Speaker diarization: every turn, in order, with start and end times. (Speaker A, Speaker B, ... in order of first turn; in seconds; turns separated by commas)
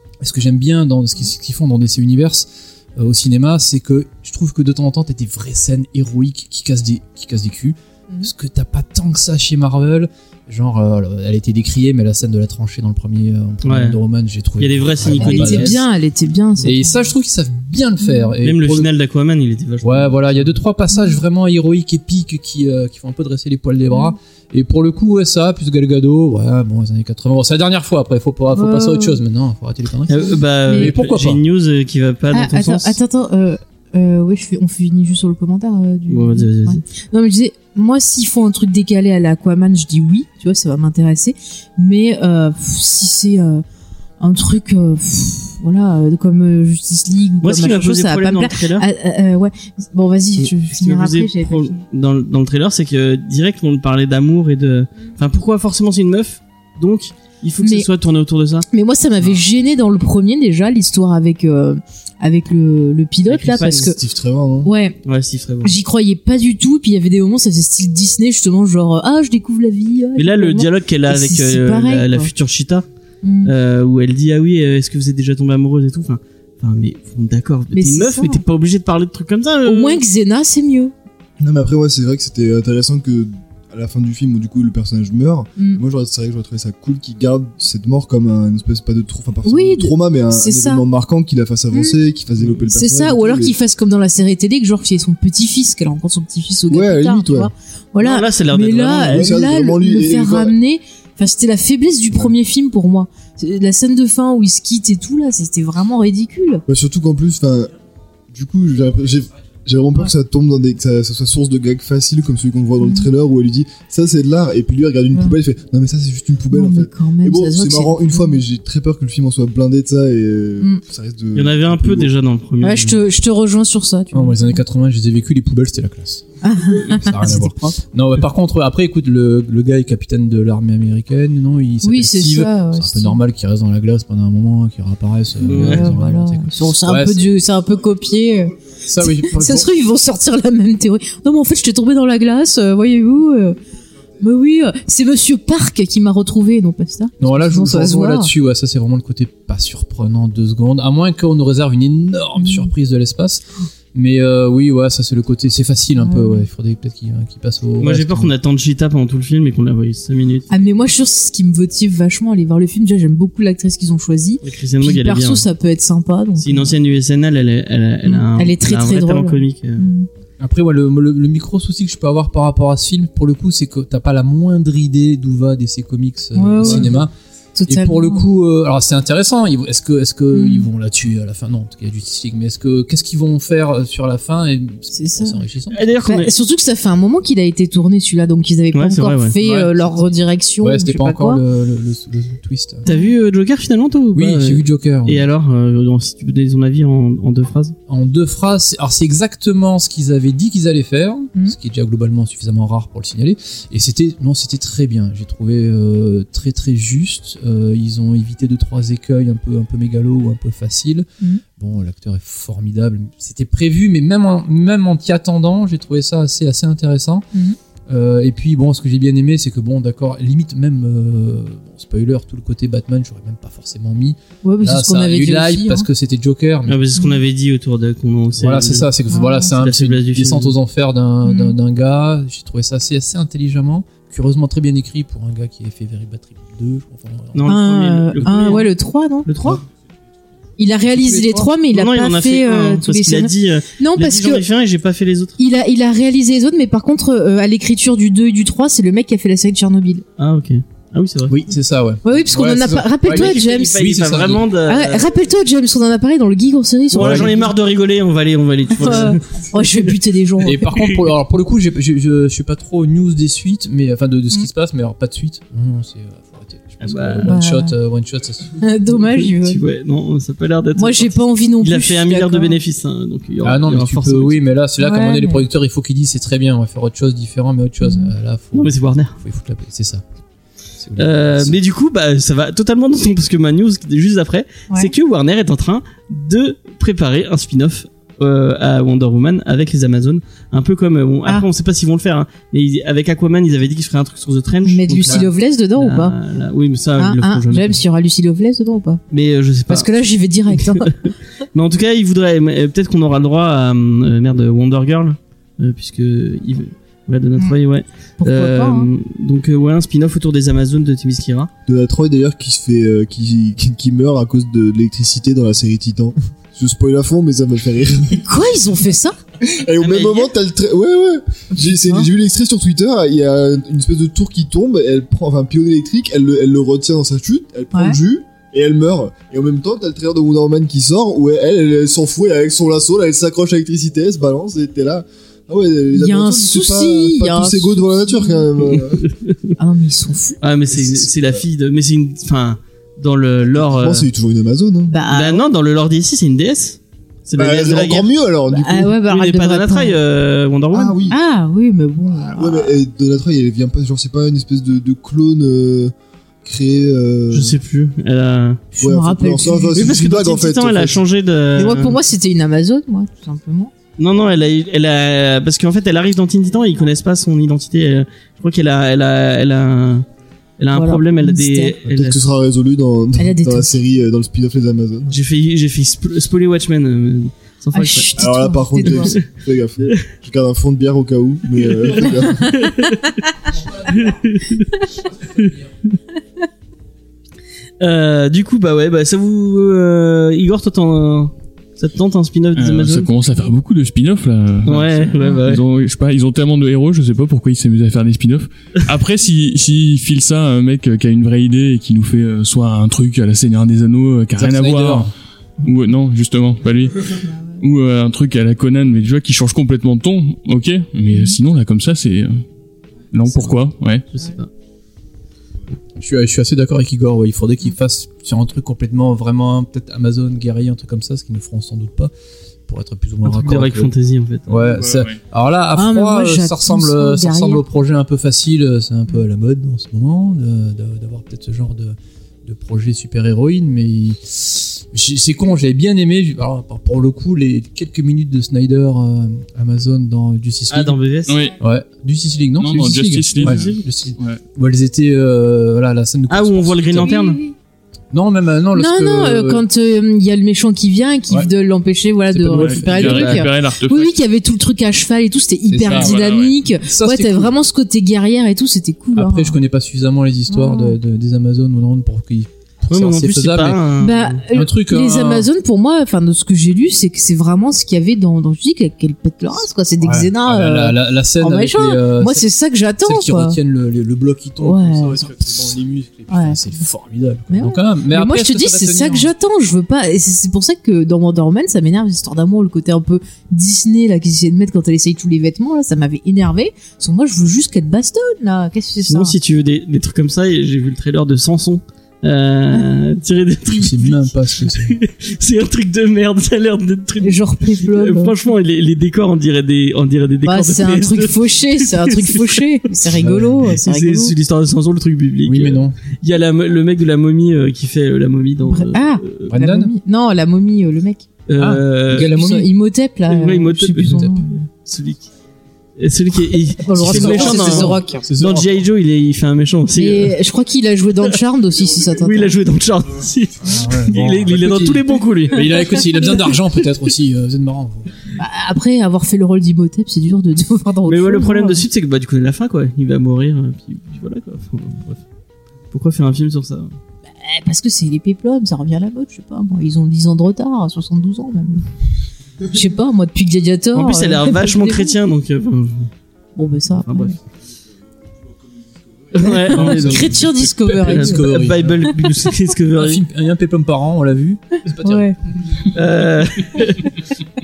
Speaker A: 0.2-15.8, Speaker B: 13.6-14.0, Speaker B: 14.6-15.8, Speaker C: 15.2-17.1, Speaker A: 16.6-18.9, Speaker C: 18.0-18.3, Speaker B: 18.4-20.5, Speaker A: 19.8-31.4, Speaker C: 20.9-21.2, Speaker C: 23.9-24.1, Speaker C: 28.5-29.2, Speaker B: 30.1-33.0, Speaker C: 30.7-30.9, Speaker C: 32.3-43.6, Speaker B: 36.1-36.8, Speaker C: 44.2-51.8, Speaker B: 47.4-48.8, Speaker B: 50.4-58.6, Speaker C: 57.6-57.9, Speaker C: 58.7-64.0, Speaker B: 63.3-63.9, Speaker D: 63.6-64.7, Speaker C: 64.6-65.0, Speaker B: 65.0-65.8, Speaker C: 65.6-72.3, Speaker B: 70.2-72.8, Speaker C: 73.2-73.5, Speaker B: 73.4-80.0, Speaker C: 77.7-78.4, Speaker C: 79.6-80.9, Speaker D: 81.4-93.5, Speaker C: 89.4-90.8, Speaker C: 91.7-92.0, Speaker C: 92.7-106.6, Speaker D: 96.7-97.5, Speaker B: 98.0-99.3, Speaker D: 98.9-100.5, Speaker D: 106.7-107.7, Speaker D: 108.3-122.1, Speaker C: 112.8-113.1, Speaker C: 116.5-118.4, Speaker B: 121.3-123.0, Speaker C: 122.6-124.6, Speaker A: 124.1-126.2, Speaker C: 126.4-127.8, Speaker A: 126.8-137.3, Speaker C: 131.8-133.2, Speaker B: 135.4-135.9, Speaker C: 135.5-143.6, Speaker A: 138.8-139.7, Speaker C: 144.2-148.3, Speaker A: 147.2-158.3, Speaker C: 152.4-152.7, Speaker C: 156.0-156.4, Speaker B: 157.8-160.5, Speaker C: 160.5-166.7, Speaker B: 164.4-165.4, Speaker B: 166.4-169.8, Speaker C: 168.0-170.1, Speaker A: 170.4-177.1, Speaker C: 176.3-177.0, Speaker C: 177.5-178.2, Speaker A: 177.7-185.8, Speaker C: 180.3-180.7, Speaker C: 184.9-185.4, Speaker B: 185.7-186.3, Speaker C: 186.0-191.4, Speaker B: 188.7-189.3, Speaker A: 189.4-190.0, Speaker A: 190.6-192.8, Speaker C: 192.8-193.1, Speaker B: 192.8-197.7, Speaker A: 194.1-195.3, Speaker A: 197.9-217.3, Speaker A: 217.9-226.8, Speaker C: 224.4-225.9, Speaker B: 226.7-228.9, Speaker A: 228.3-237.5, Speaker C: 229.1-229.5, Speaker B: 229.5-230.5, Speaker C: 231.2-231.6, Speaker B: 237.3-238.7, Speaker C: 237.5-239.6, Speaker B: 239.3-239.6, Speaker C: 240.6-244.4, Speaker A: 240.9-241.5, Speaker B: 241.7-245.4, Speaker C: 245.4-250.0, Speaker B: 250.2-251.4, Speaker A: 251.3-254.5, Speaker C: 252.0-253.8, Speaker B: 253.1-255.1, Speaker C: 254.7-257.5, Speaker A: 256.9-257.3, Speaker B: 256.9-259.9, Speaker C: 258.8-260.7, Speaker A: 260.4-268.6, Speaker B: 266.8-267.3, Speaker C: 267.2-267.7, Speaker C: 268.6-269.6, Speaker B: 269.2-274.4, Speaker C: 270.8-272.6, Speaker A: 273.4-280.0, Speaker C: 274.8-275.4, Speaker C: 277.8-278.1, Speaker B: 278.5-279.1, Speaker A: 280.8-281.6, Speaker B: 281.0-297.8, Speaker C: 294.6-296.1, Speaker C: 297.0-299.0, Speaker B: 299.1-299.9, Speaker C: 299.7-300.9, Speaker B: 300.5-311.5, Speaker C: 308.2-308.9, Speaker D: 311.7-318.2, Speaker C: 318.1-319.1, Speaker D: 319.4-339.1, Speaker B: 319.8-320.3, Speaker C: 321.6-322.1, Speaker C: 335.9-338.4, Speaker B: 338.7-339.3, Speaker C: 339.6-340.4, Speaker B: 340.4-344.1, Speaker D: 340.7-341.4, Speaker D: 343.4-344.9, Speaker C: 344.9-345.5, Speaker B: 345.1-348.1, Speaker D: 347.4-348.9, Speaker C: 348.5-350.0, Speaker B: 349.1-351.0, Speaker D: 350.7-351.2, Speaker C: 351.0-352.8, Speaker D: 352.2-355.9, Speaker D: 356.4-357.6, Speaker B: 357.3-358.6, Speaker C: 358.7-359.8, Speaker D: 358.8-361.0, Speaker B: 359.7-362.0, Speaker C: 361.6-363.7, Speaker B: 364.0-370.1, Speaker B: 370.6-372.2, Speaker C: 370.7-371.8, Speaker D: 371.9-375.1, Speaker C: 373.2-373.7, Speaker B: 375.1-378.2, Speaker C: 377.7-379.1, Speaker D: 378.2-382.5, Speaker B: 378.8-379.2, Speaker B: 381.6-384.8, Speaker B: 387.8-393.1, Speaker E: 392.6-405.1, Speaker B: 394.6-395.6, Speaker A: 404.3-405.1, Speaker E: 405.6-412.4, Speaker C: 407.3-407.6, Speaker C: 411.1-411.4, Speaker E: 413.1-414.0, Speaker B: 414.1-414.5, Speaker A: 415.9-422.1, Speaker A: 422.7-423.9, Speaker B: 423.2-424.6, Speaker A: 424.5-441.0, Speaker E: 424.7-425.2, Speaker C: 425.7-427.6, Speaker B: 440.7-441.3, Speaker E: 441.3-441.6, Speaker A: 441.6-447.2, Speaker E: 442.6-444.4, Speaker B: 443.4-443.8, Speaker B: 446.3-447.4, Speaker C: 447.0-447.5, Speaker A: 448.1-449.6, Speaker C: 448.8-459.6, Speaker A: 452.3-453.4, Speaker E: 452.6-454.1, Speaker A: 455.7-456.2, Speaker E: 455.9-456.6, Speaker A: 456.8-457.6, Speaker A: 459.1-463.8, Speaker C: 460.5-461.0, Speaker B: 462.9-464.4, Speaker C: 464.0-473.6, Speaker A: 464.5-465.5, Speaker A: 470.0-472.4, Speaker A: 473.0-479.3, Speaker C: 474.6-475.3, Speaker C: 476.3-476.8, Speaker C: 477.5-489.4, Speaker B: 489.1-502.9, Speaker A: 493.7-495.0, Speaker C: 497.2-498.3, Speaker C: 500.4-504.3, Speaker A: 503.1-503.8, Speaker B: 503.7-509.5, Speaker A: 505.4-506.0, Speaker C: 508.6-511.2, Speaker A: 509.5-509.9, Speaker B: 511.5-512.3, Speaker A: 511.6-512.7, Speaker C: 512.2-514.7, Speaker B: 513.3-514.3, Speaker A: 514.0-514.4, Speaker B: 514.8-515.3, Speaker B: 516.0-520.4, Speaker C: 516.8-518.2, Speaker A: 516.9-518.8, Speaker C: 520.0-522.6, Speaker B: 522.2-526.3, Speaker A: 523.6-528.1, Speaker C: 528.4-531.8, Speaker B: 531.0-535.2, Speaker B: 535.9-536.9, Speaker C: 537.4-541.9, Speaker C: 542.7-545.1, Speaker B: 543.9-546.1, Speaker C: 546.5-547.4, Speaker B: 547.0-547.3, Speaker B: 549.3-553.2, Speaker C: 549.4-552.1, Speaker A: 549.7-552.1, Speaker A: 552.9-555.3, Speaker C: 555.0-555.4, Speaker B: 555.9-557.1